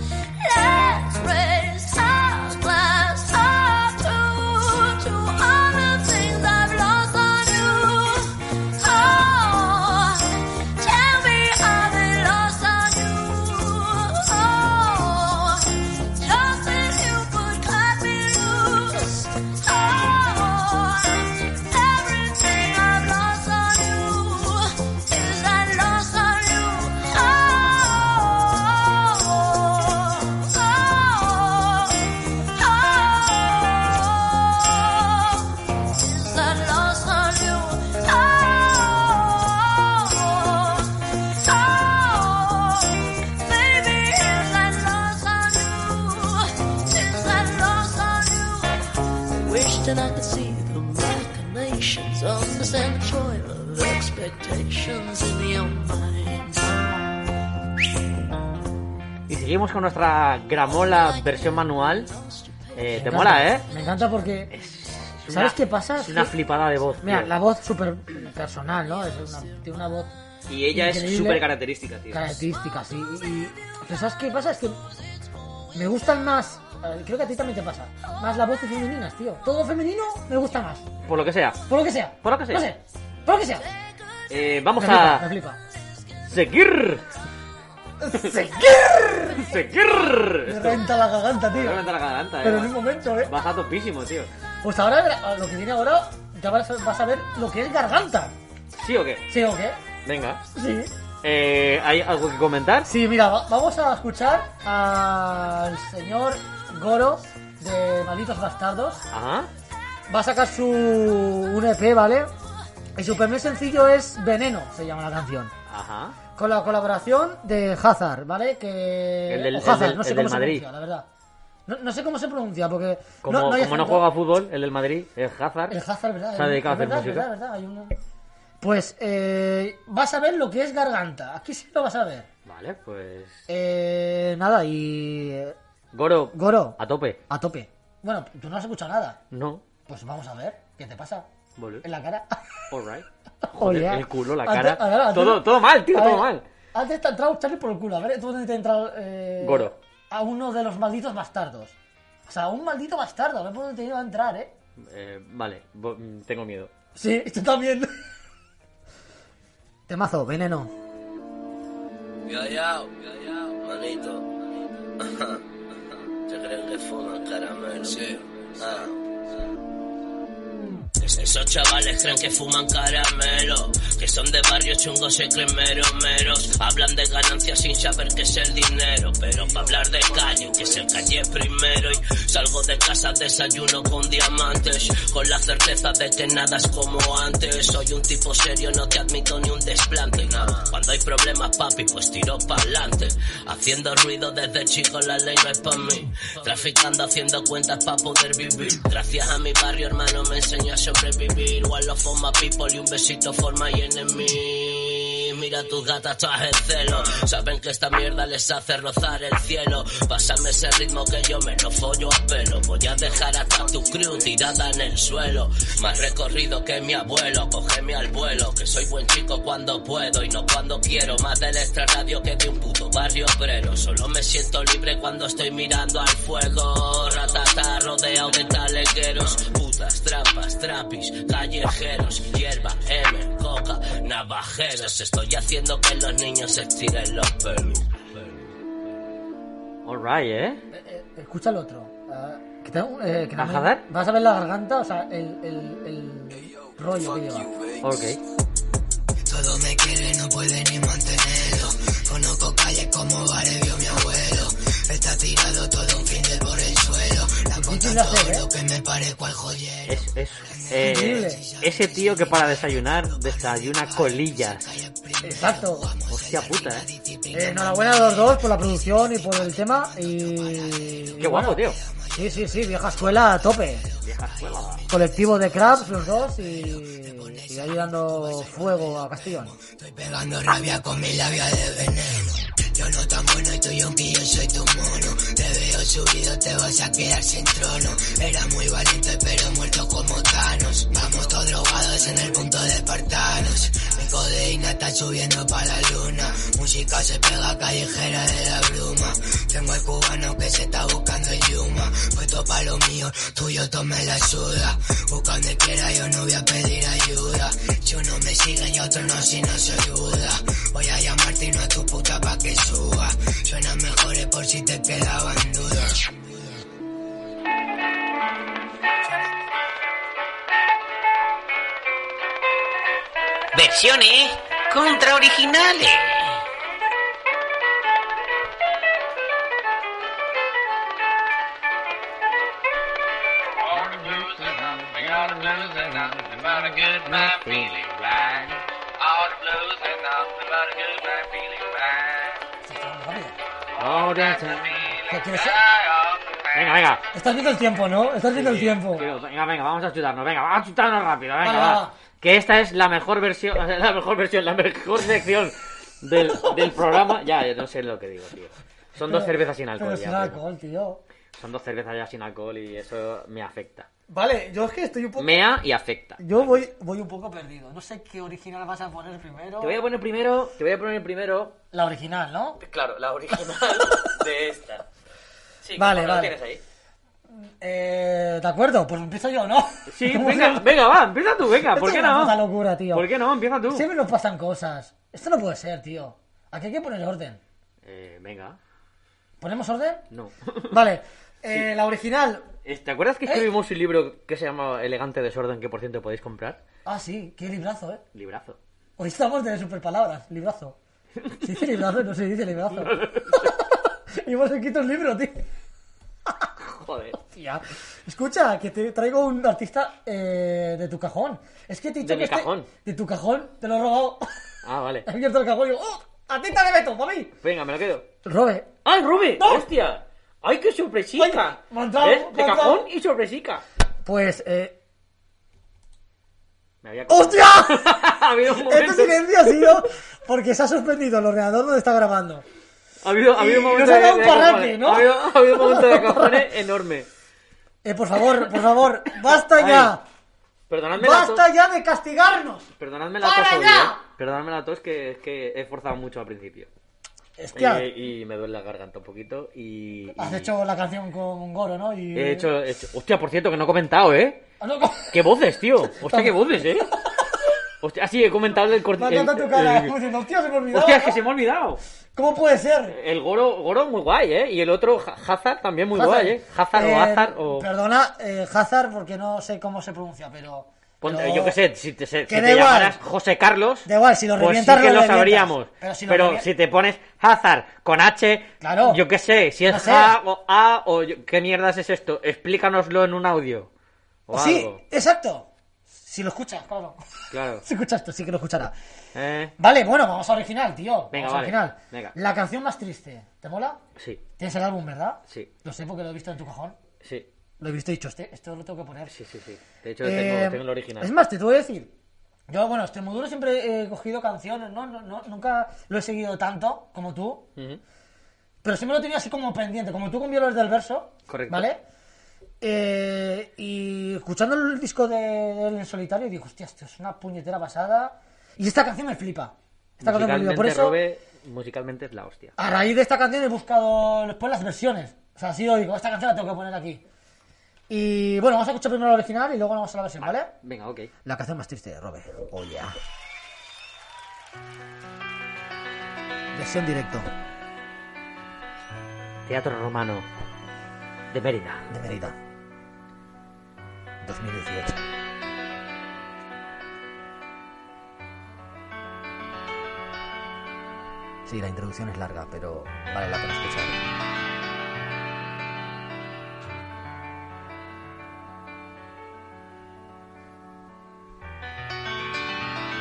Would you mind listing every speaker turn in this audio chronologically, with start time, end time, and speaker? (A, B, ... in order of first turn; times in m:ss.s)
0:00.4-0:32.0 A
0:32.6-0:48.8 A
0:49.4-0:57.1 A
0:59.3-1:02.1 B
1:00.9-1:02.7 A
1:02.7-1:03.6 B
1:02.9-1:04.5 C
1:04.5-1:07.3 B
1:05.3-1:06.3 C
1:07.0-1:10.1 C
1:10.5-1:12.4 B
1:10.7-1:11.5 C
1:12.1-1:14.8 C
1:15.7-1:20.8 C
1:21.0-1:21.6 B
1:21.7-1:23.6 C
1:22.2-1:22.7 B
1:24.3-1:25.3 B
1:24.8-1:25.6 C
1:26.3-1:27.0 B
1:28.0-1:29.6 C
1:29.4-1:30.8 B
1:30.4-1:31.8 C
1:31.5-1:34.3 B
1:32.4-1:33.3 C
1:34.6-1:38.3 C
1:38.8-1:39.3 B
1:39.3-1:39.8 C
1:40.0-1:40.4 B
1:40.6-1:40.9 C
1:41.2-1:42.9 B
1:42.9-1:49.0 C
1:49.1-1:49.5 B
1:50.1-1:52.3 C
1:53.0-1:55.5 C
1:55.7-1:56.2 B
1:56.4-2:01.0 C
1:59.3-2:00.7 B
2:01.7-2:04.1 C
2:03.2-2:05.8 B
2:05.7-2:07.9 C
2:06.4-2:07.3 B
2:08.6-2:12.3 C
2:12.4-2:13.4 B
2:13.5-2:15.6 C
2:15.9-2:17.2 B
2:16.3-2:16.8 C
2:17.3-2:19.2 C
2:19.3-2:19.6 B
2:19.9-2:21.3 C
2:21.6-2:21.8 B
2:21.8-2:22.4 C
2:22.7-2:26.4 B
2:23.4-2:31.7 C
2:29.4-2:29.7 B
2:32.3-2:34.5 C
2:34.8-2:36.7 B
2:37.0-2:37.9 C
2:39.9-2:40.7 C
2:43.6-2:44.3 D
2:45.0-2:45.4 D
2:46.3-2:48.9 D
2:51.0-3:57.9 D
3:59.8-4:00.6 B
4:00.7-4:07.5 C
4:03.4-4:03.8 B
4:07.8-4:08.2 B
4:09.2-4:31.2 E
4:17.6-4:18.4 C
4:19.9-4:24.7 B
4:20.8-4:21.4 C
4:25.2-4:25.9 C
4:26.1-4:26.9 B
4:27.3-4:33.9 C
4:31.2-4:31.8 B
4:31.7-5:16.0 E
4:34.0-4:34.8 B
4:34.9-4:39.6 C
5:23.5-5:26.3 F
5:34.1-5:38.4 B
5:42.6-5:43.4 C
5:43.8-5:45.0 B
5:45.1-5:45.6 C
5:46.5-5:47.0 B
5:47.1-5:49.0 C
5:48.3-6:00.4 B
5:51.4-5:51.9 C
5:59.0-6:01.0 C
6:01.4-6:03.9 B
6:04.1-6:05.5 C
6:05.2-6:06.6 B
6:06.2-6:09.8 C
6:09.6-6:11.6 B
6:11.7-6:12.6 C
6:12.6-6:14.9 B
6:15.6-6:16.6 B
6:15.8-6:16.4 C
6:17.4-6:20.7 C
6:19.9-6:22.4 B
6:21.7-6:23.1 C
6:22.9-6:23.9 B
6:23.7-6:27.4 C
6:27.8-6:28.6 B
6:29.4-6:30.0 C
6:30.1-6:30.8 B
6:30.7-6:32.4 C
6:32.6-6:36.6 B
6:36.9-6:38.0 C
6:38.1-6:38.6 B
6:39.0-6:40.8 C
6:41.4-6:45.4 C
6:42.7-6:43.5 B
6:46.6-6:47.2 B
6:47.2-6:54.3 C
6:52.0-6:52.7 B
6:54.6-6:55.1 B
6:55.0-6:57.3 C
6:57.4-6:58.0 B
6:58.2-6:58.7 C
6:58.8-7:03.6 B
6:59.4-6:59.6 C
7:01.2-7:02.9 C
7:04.0-7:04.8 C
7:06.8-7:09.7 B
7:07.1-7:12.4 C
7:13.0-7:17.1 B
7:13.4-7:16.4 C
7:17.8-7:20.0 C
7:19.4-7:20.0 B
7:20.7-7:21.4 B
7:21.0-7:22.7 C
7:22.8-7:26.7 B
7:23.2-7:24.0 C
7:27.4-7:27.9 C
7:27.6-7:30.5 B
7:30.2-7:32.5 C
7:32.1-7:34.4 B
7:34.6-7:35.2 C
7:35.1-7:36.9 B
7:36.0-7:36.7 C
7:37.8-7:40.0 B
7:39.0-7:41.2 C
7:40.7-7:41.8 B
7:42.1-7:43.0 C
7:42.9-7:47.7 B
7:46.0-7:51.6 C
7:51.0-8:03.7 B
7:52.3-7:53.0 C
7:53.8-7:56.4 C
7:58.6-7:59.0 C
7:59.7-8:00.2 C
8:04.3-8:04.8 B
8:04.3-8:05.5 C
8:06.0-8:07.0 C
8:07.3-8:07.6 B
8:07.6-8:08.7 C
8:09.1-8:09.5 B
8:09.6-8:13.8 C
8:11.1-8:12.2 B
8:14.0-8:14.2 B
8:14.4-8:16.8 C
8:17.0-8:17.3 B
8:17.6-8:19.1 C
8:19.1-8:21.1 B
8:20.0-8:21.9 C
8:22.5-8:27.5 C
8:28.6-8:31.8 C
8:31.3-8:31.7 B
8:32.6-8:41.0 C
8:40.0-8:42.6 B
8:42.6-8:47.0 C
8:47.9-8:50.5 C
8:50.2-8:51.1 B
8:51.2-8:53.0 C
8:56.5-8:57.3 C
8:59.5-9:00.3 B
9:01.3-9:01.9 B
9:01.9-9:02.4 C
9:04.2-9:05.0 C
9:11.5-9:14.0 C